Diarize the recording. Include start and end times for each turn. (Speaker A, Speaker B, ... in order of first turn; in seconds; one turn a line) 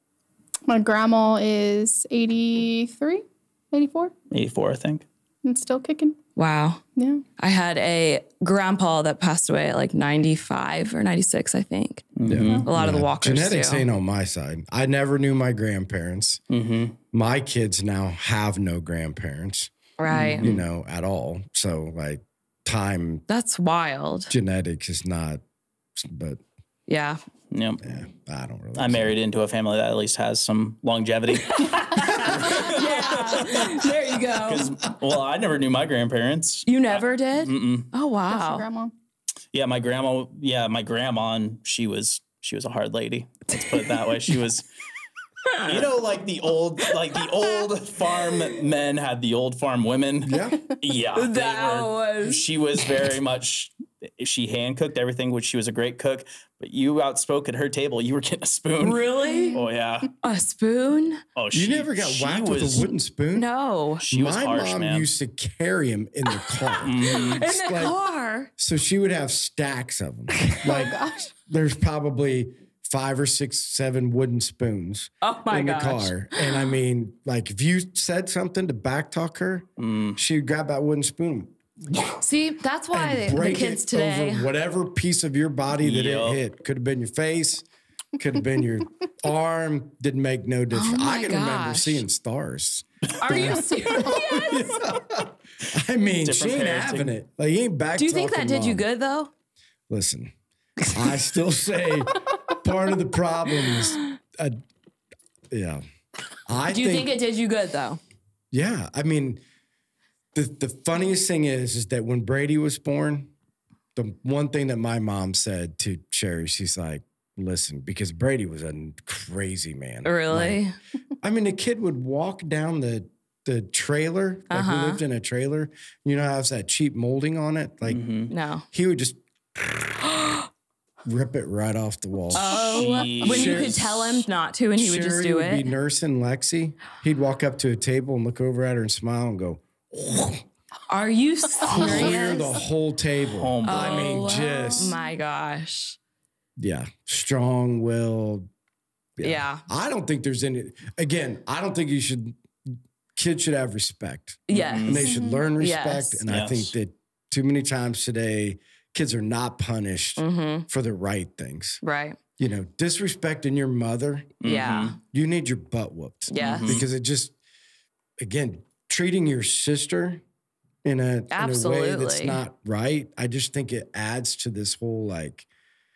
Speaker A: 0.7-4.1
Speaker B: 4.3-5.0
Speaker A: 5.4-6.2
Speaker C: 6.3-6.8
Speaker A: 7.0-7.2
Speaker C: 7.4-12.1
Speaker B: 12.2-12.6
Speaker D: 12.2-16.4
Speaker C: 12.6-13.8
Speaker B: 16.5-17.0
Speaker D: 17.1-23.2
Speaker C: 20.0-20.4
Speaker C: 23.3-24.3
Speaker D: 24.3-25.4
Speaker D: 26.0-26.4
Speaker C: 26.9-27.2
Speaker B: 27.5-27.8
Speaker D: 27.8-29.1
Speaker B: 28.8-37.9
Speaker C: 31.4-34.7
Speaker C: 36.6-38.6
Speaker A: 38.3-38.9
Speaker B: 39.5-44.6
Speaker C: 45.5-45.8
Speaker B: 45.6-60.1
Speaker D: 50.2-50.7
Speaker C: 51.1-52.9
Speaker C: 58.8-59.6
Speaker A: 59.2-59.6
Speaker C: 60.2-61.2
Speaker B: 61.3-62.9
Speaker D: 61.5-63.5
Speaker C: 63.3-64.0
Speaker B: 64.0-65.1
Speaker D: 64.1-68.0
Speaker B: 66.8-67.4
Speaker C: 67.0-68.5
Speaker D: 68.6-82.2
Speaker A: 70.6-71.3
Speaker C: 75.2-76.7
Speaker B: 79.8-80.2
Speaker C: 82.2-84.5
Speaker D: 82.9-87.7
Speaker B: 85.8-86.4
Speaker D: 88.2-98.8
Speaker C: 90.7-92.0
Speaker C: 93.2-94.9
Speaker B: 96.2-97.1
Speaker C: 98.0-99.3
Speaker D: 99.9-100.3
Speaker D: 100.9-104.6
Speaker D: 105.5-105.8
Speaker D: 106.5-107.1
Speaker C: 106.7-108.0
Speaker D: 108.5-109.4
Speaker D: 110.3-113.3
Speaker D: 113.9-120.6
Speaker C: 120.0-120.7
Speaker D: 121.2-128.0
Speaker C: 124.5-125.0
Speaker B: 127.8-128.3
Speaker C: 128.3-128.7
Speaker D: 128.7-130.4
Speaker D: 131.1-140.4
Speaker C: 132.3-135.7
Speaker B: 132.4-133.8
Speaker C: 140.9-142.6
Speaker A: 141.6-142.4
Speaker D: 141.6-144.9
Speaker B: 143.3-144.2
Speaker C: 143.6-146.0
Speaker D: 146.6-148.5
Speaker D: 149.2-152.4
Speaker C: 149.2-149.6
Speaker D: 153.2-161.8
Speaker C: 154.5-156.2
Speaker B: 154.5-155.0
Speaker A: 155.0-155.4
Speaker B: 156.3-156.7
Speaker C: 160.2-160.7
Speaker C: 161.8-162.2
Speaker D: 162.4-164.4
Speaker B: 164.4-164.9
Speaker C: 164.4-165.0
Speaker D: 165.0-167.3
Speaker C: 166.3-166.7
Speaker B: 166.4-166.9
Speaker D: 168.2-170.2
Speaker D: 170.8-175.5
Speaker C: 171.3-172.4